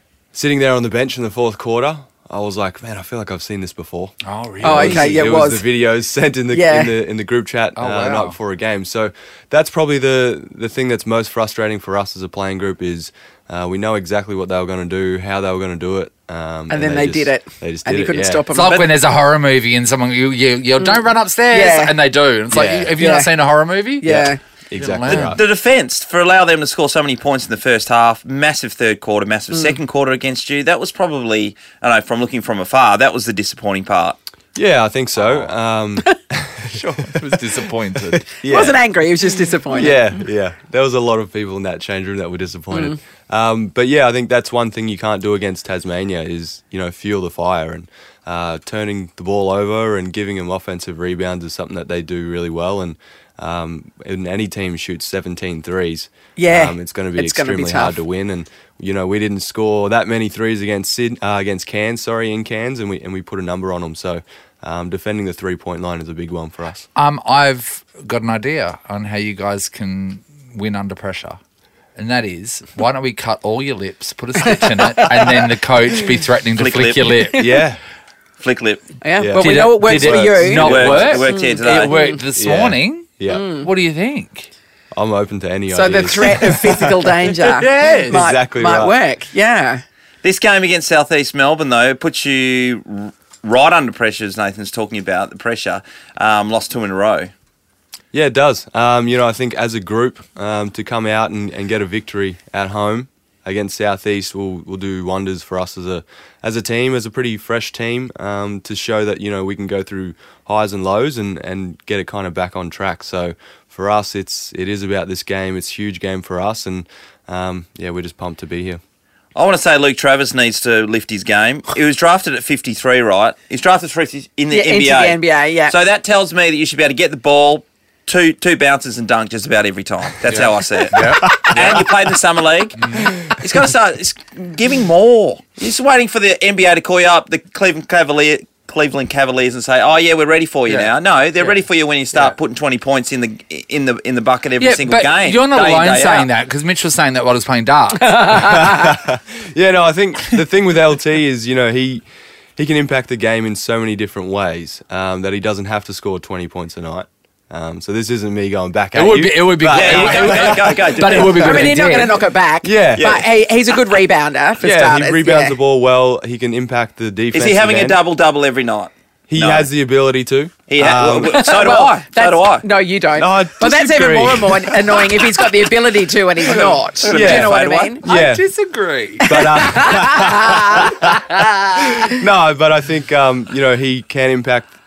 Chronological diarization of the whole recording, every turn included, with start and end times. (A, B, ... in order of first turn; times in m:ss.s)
0:00.3-0:18.4 A
0:04.2-0:05.2 B
0:04.6-0:05.7 C
0:06.5-0:06.9 C
0:07.8-0:08.4 B
0:16.7-0:18.9 C
0:18.5-0:24.1 B
0:21.5-0:22.0 C
0:22.5-0:22.9 A
0:23.0-0:23.3 C
0:24.0-0:24.4 C
0:24.0-0:25.4 A
0:24.8-0:25.4 B
0:25.0-0:34.2 D
0:29.5-0:29.8 C
0:34.5-0:37.4 A
0:36.7-0:38.3 B
0:38.1-0:38.8 A
0:38.5-0:40.0 C
0:39.7-1:06.8 A
0:42.7-0:43.0 C
0:56.4-0:58.0 C
1:06.9-1:11.4 B
1:12.0-1:17.5 B
1:16.5-1:17.1 D
1:17.4-1:17.8 A
1:18.4-1:18.8 D
1:19.0-1:22.2 C
1:19.2-1:21.1 A
1:19.4-1:24.5 B
1:20.6-1:22.0 D
1:22.3-1:23.5 A
1:23.3-1:23.6 C
1:24.9-1:27.1 A
1:25.7-1:29.8 C
1:27.4-1:28.2 B
1:28.1-1:28.9 A
1:30.2-1:37.3 D
1:38.1-1:58.8 A
1:59.3-2:26.3 D
2:04.5-2:05.7 C
2:10.3-2:11.9 B
2:12.8-2:13.2 B
2:20.7-2:21.6 B
2:24.6-2:29.0 B
2:28.4-2:32.0 A
2:32.6-2:40.9 A
2:38.9-2:42.2 B
2:39.7-2:41.7 D
2:41.1-2:45.6 C
2:42.6-2:43.2 A
2:44.6-2:48.0 A
2:47.3-2:49.7 D
2:49.3-2:51.4 A
2:50.7-2:52.7 D
2:51.3-2:58.1 C
2:53.2-2:55.3 A
2:56.7-2:57.3 B
2:57.0-2:57.9 D
2:57.1-2:58.5 A
2:58.0-3:01.9 B
2:59.2-3:01.2 A
2:59.6-3:00.9 C
3:01.8-3:04.7 A